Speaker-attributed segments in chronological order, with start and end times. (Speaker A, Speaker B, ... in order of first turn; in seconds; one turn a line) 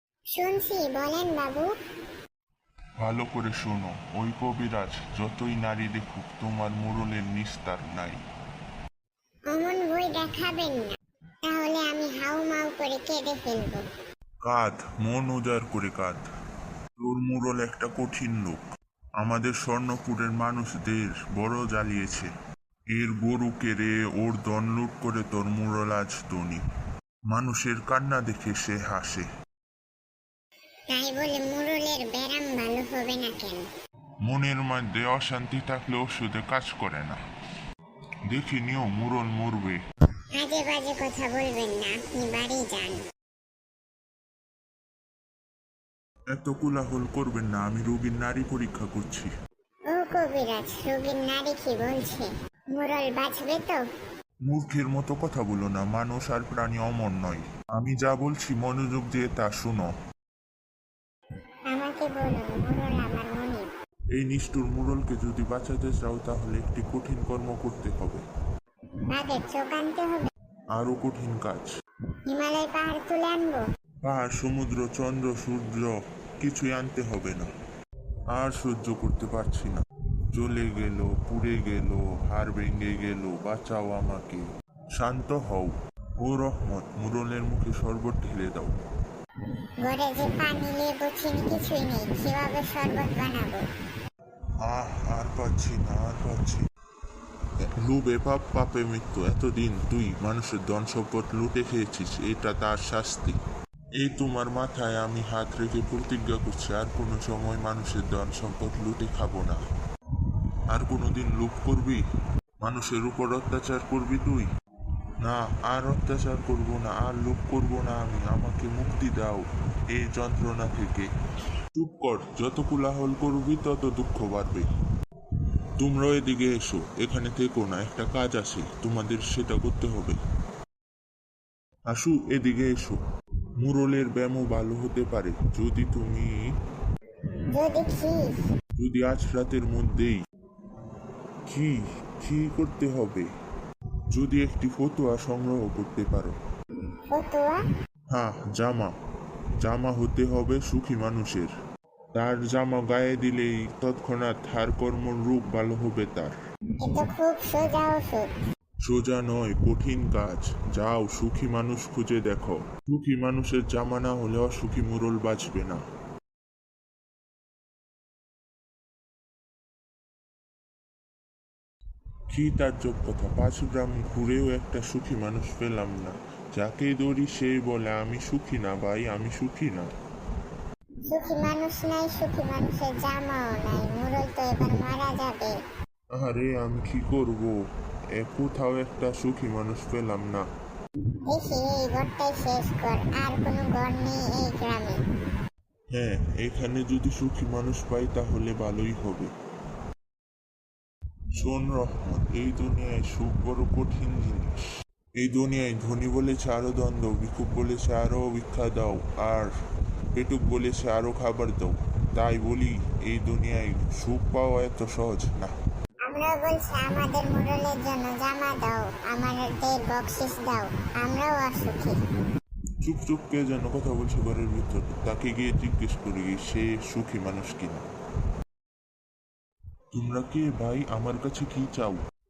Speaker A: 0.3-1.8
Speaker B: 3.0-8.2
Speaker A: 9.5-13.9
Speaker B: 14.4-16.2
Speaker B: 17.0-18.6
Speaker B: 19.2-22.3
Speaker B: 22.9-26.6
Speaker B: 27.3-29.3
Speaker A: 30.9-33.6
Speaker B: 34.3-37.2
Speaker B: 38.3-39.8
Speaker A: 40.4-43.0
Speaker B: 46.4-49.3
Speaker A: 49.9-53.8
Speaker B: 54.5-59.9
Speaker A: 61.7-63.7
Speaker B: 64.2-68.2
Speaker A: 69.1-70.3
Speaker B: 70.8-71.7
Speaker A: 72.3-73.7
Speaker B: 74.0-77.5
Speaker B: 78.3-84.5
Speaker B: 85.0-88.8
Speaker A: 89.8-93.7
Speaker B: 94.6-96.6
Speaker B: 97.6-103.4
Speaker B: 104.0-109.6
Speaker B: 110.7-112.0
Speaker B: 112.6-114.5
Speaker B: 115.2-121.1
Speaker B: 121.8-124.7
Speaker B: 125.8-130.2
Speaker B: 131.9-133.0
Speaker B: 133.6-136.3
Speaker A: 137.3-138.5
Speaker B: 138.8-140.2
Speaker B: 141.5-143.3
Speaker B: 144.1-146.4
Speaker A: 147.1-147.6
Speaker B: 148.1-148.9
Speaker B: 149.6-151.5
Speaker B: 152.2-156.3
Speaker A: 156.8-158.3
Speaker B: 158.8-165.8
Speaker B: 172.3-179.9
Speaker A: 181.1-185.6
Speaker B: 186.1-187.6
Speaker B: 188.2-190.4
Speaker A: 191.2-195.0
Speaker B: 195.9-199.3
Speaker B: 201.4-204.6
Speaker B: 205.2-209.5
Speaker B: 210.1-215.5
Speaker A: 216.1-222.1
Speaker B: 222.8-227.9
Speaker B: 229.9-232.0